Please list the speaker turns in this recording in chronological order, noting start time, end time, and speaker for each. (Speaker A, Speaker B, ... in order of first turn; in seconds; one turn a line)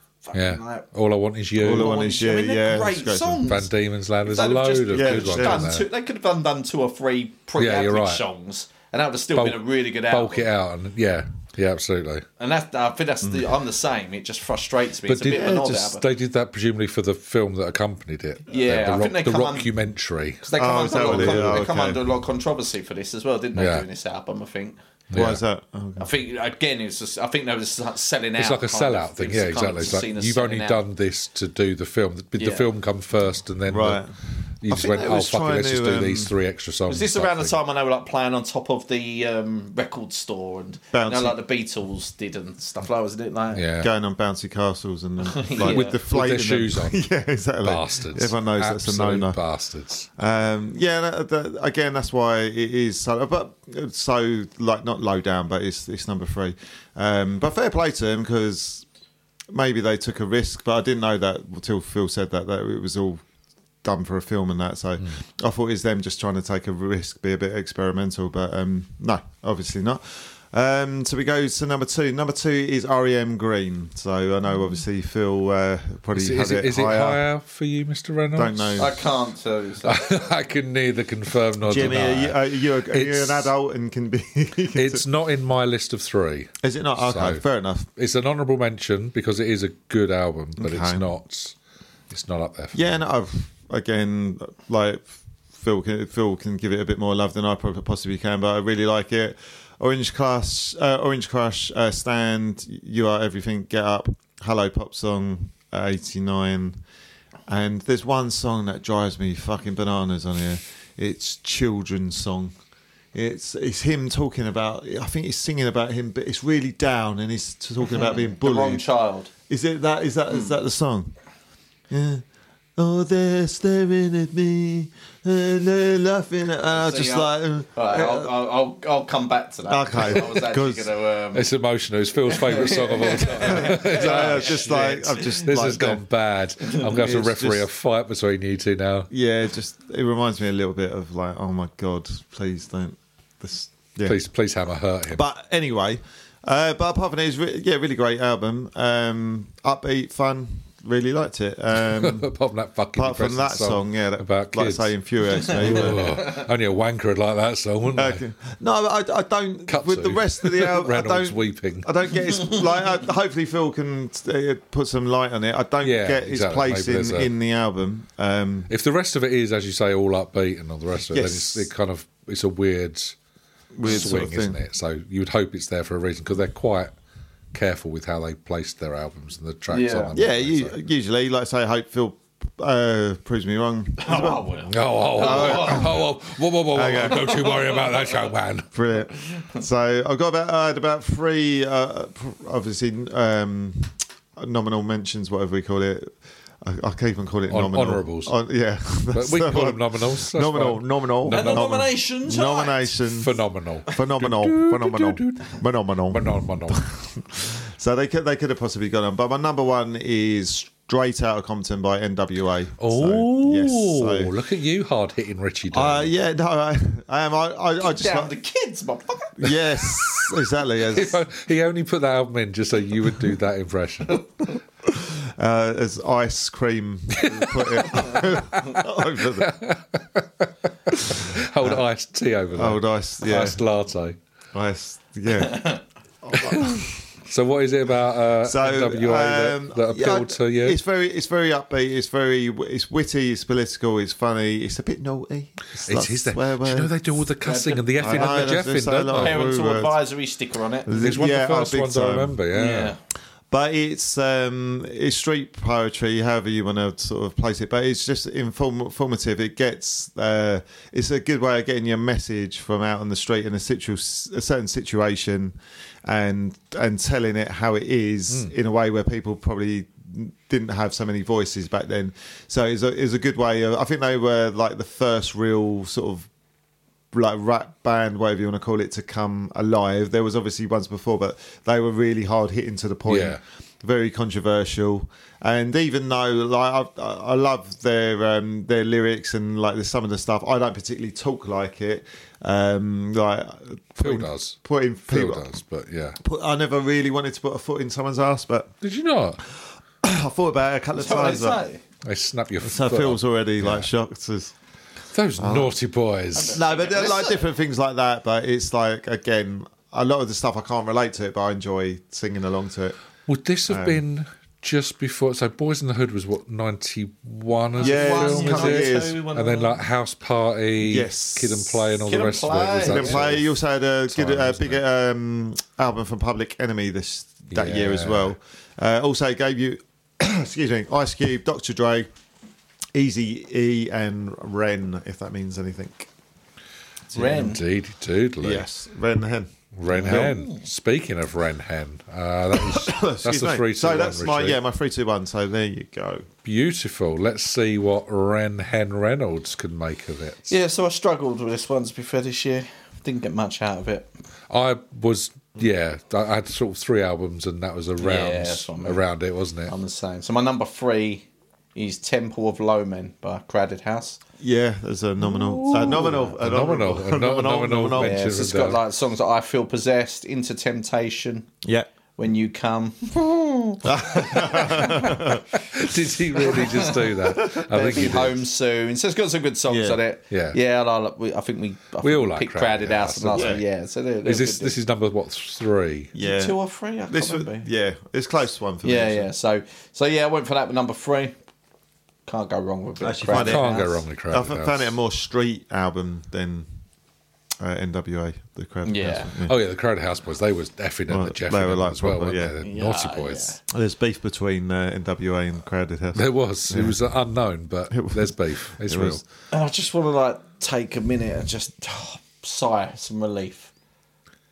Speaker A: 0.2-0.8
Speaker B: 0.3-1.9
Speaker C: 1.6-3.5
Speaker A: 1.6-3.7
Speaker B: 3.5-5.8
Speaker A: 4.2-10.5
Speaker C: 4.9-5.7
Speaker B: 7.5-8.2
Speaker B: 9.3-12.2
Speaker A: 12.4-16.0
Speaker C: 13.2-13.6
Speaker B: 15.1-21.7
Speaker C: 15.3-15.7
Speaker A: 18.5-19.7
Speaker A: 20.4-24.8
Speaker C: 20.6-22.0
Speaker B: 23.5-23.9
Speaker B: 25.1-25.4
Speaker C: 25.1-26.1
Speaker A: 26.0-30.8
Speaker B: 28.4-34.0
Speaker A: 32.4-32.7
Speaker C: 33.7-34.1
Speaker B: 34.6-37.6
Speaker C: 34.7-36.3
Speaker A: 36.9-43.6
Speaker C: 40.9-41.4
Speaker B: 43.5-43.9
Speaker C: 43.8-49.4
Speaker A: 45.3-46.0
Speaker B: 45.6-47.0
Speaker B: 47.6-50.1
Speaker C: 50.2-58.8
Speaker C: 59.5-63.2
Speaker C: 63.8-77.2
Speaker B: 76.1-78.9
Speaker C: 78.3-79.0
Speaker A: 78.8-80.2
Speaker B: 79.8-83.5
Speaker C: 81.6-85.0
Speaker B: 84.7-87.4
Speaker C: 86.6-87.9
Speaker B: 88.0-91.5
Speaker C: 90.6-91.1
Speaker B: 92.1-92.8
Speaker C: 92.7-106.8
Speaker C: 107.5-112.5
Speaker C: 113.1-118.8
Speaker A: 118.0-119.3
Speaker C: 119.5-121.1
Speaker C: 121.9-122.2
Speaker C: 122.8-128.3
Speaker A: 126.7-131.5
Speaker C: 129.7-130.9
Speaker B: 131.3-139.1
Speaker A: 132.2-135.1
Speaker C: 133.4-136.0
Speaker C: 136.9-137.7
Speaker C: 139.1-144.2
Speaker B: 144.0-145.2
Speaker C: 145.1-152.3
Speaker B: 151.8-154.9
Speaker C: 152.9-156.2
Speaker B: 155.5-158.2
Speaker A: 155.5-156.3
Speaker C: 157.9-168.7
Speaker B: 159.7-161.9
Speaker B: 165.8-167.3
Speaker B: 168.7-173.2
Speaker C: 171.1-171.7
Speaker C: 173.7-174.6
Speaker B: 173.8-176.9
Speaker B: 177.5-180.8
Speaker A: 179.7-180.2
Speaker C: 180.1-184.6
Speaker A: 184.0-186.0
Speaker B: 184.7-188.7
Speaker C: 185.1-186.0
Speaker C: 186.7-187.5
Speaker A: 187.2-187.8
Speaker C: 188.7-203.3
Speaker B: 197.5-198.3
Speaker B: 199.1-201.8
Speaker A: 201.3-202.9
Speaker B: 203.1-206.8
Speaker C: 203.8-214.3
Speaker B: 212.8-216.1
Speaker C: 215.7-218.3
Speaker A: 217.8-219.7
Speaker C: 219.4-221.2
Speaker B: 220.8-224.2
Speaker C: 224.8-229.5
Speaker B: 227.2-234.2
Speaker C: 232.5-233.6
Speaker C: 234.5-237.1
Speaker A: 235.4-235.8
Speaker B: 236.3-240.8
Speaker C: 238.4-246.9
Speaker B: 245.8-249.4
Speaker A: 247.4-250.9
Speaker C: 248.0-250.0
Speaker C: 250.8-252.4
Speaker B: 250.9-252.9
Speaker A: 252.5-253.0
Speaker C: 253.5-276.3
Speaker C: 277.1-295.5
Speaker B: 283.1-283.4
Speaker B: 294.0-296.2
Speaker C: 296.2-298.7
Speaker B: 298.8-299.4
Speaker C: 300.0-301.6
Speaker A: 301.0-301.8
Speaker B: 302.0-303.9
Speaker C: 302.6-304.5
Speaker B: 305.1-306.6
Speaker C: 305.4-305.7
Speaker A: 306.4-307.5
Speaker C: 306.4-312.9
Speaker B: 313.3-323.5
Speaker C: 313.7-314.0
Speaker A: 317.8-319.8
Speaker C: 317.8-319.2
Speaker C: 320.8-322.0
Speaker A: 322.1-323.3
Speaker C: 322.8-332.1
Speaker B: 324.1-324.8
Speaker B: 327.5-328.3
Speaker C: 332.9-336.1
Speaker A: 337.1-337.6
Speaker B: 337.1-338.6
Speaker C: 338.4-340.4
Speaker B: 339.7-344.6
Speaker A: 340.0-340.6
Speaker C: 342.5-346.3
Speaker B: 346.4-350.5
Speaker A: 350.5-354.1
Speaker B: 354.5-359.7
Speaker A: 358.0-359.0
Speaker A: 359.7-364.2
Speaker C: 364.4-368.2
Speaker B: 365.3-368.8
Speaker A: 365.8-366.2
Speaker A: 367.9-371.5
Speaker A: 372.2-375.4
Speaker C: 373.8-375.4
Speaker B: 374.9-378.4
Speaker A: 376.4-384.8
Speaker C: 377.3-377.6
Speaker C: 379.7-380.0
Speaker B: 380.3-380.6
Speaker B: 382.0-383.6
Speaker C: 383.3-383.6
Speaker B: 384.2-386.1
Speaker C: 386.1-386.6
Speaker A: 386.2-387.7
Speaker C: 387.1-389.3
Speaker A: 388.8-391.3
Speaker A: 392.3-394.0
Speaker C: 393.0-396.7
Speaker B: 393.3-394.9
Speaker C: 397.6-399.6
Speaker A: 398.8-399.3
Speaker B: 399.4-403.6
Speaker C: 401.1-402.6
Speaker A: 402.6-403.6
Speaker C: 403.7-406.9
Speaker B: 406.1-409.2
Speaker C: 407.9-409.2
Speaker A: 409.5-413.7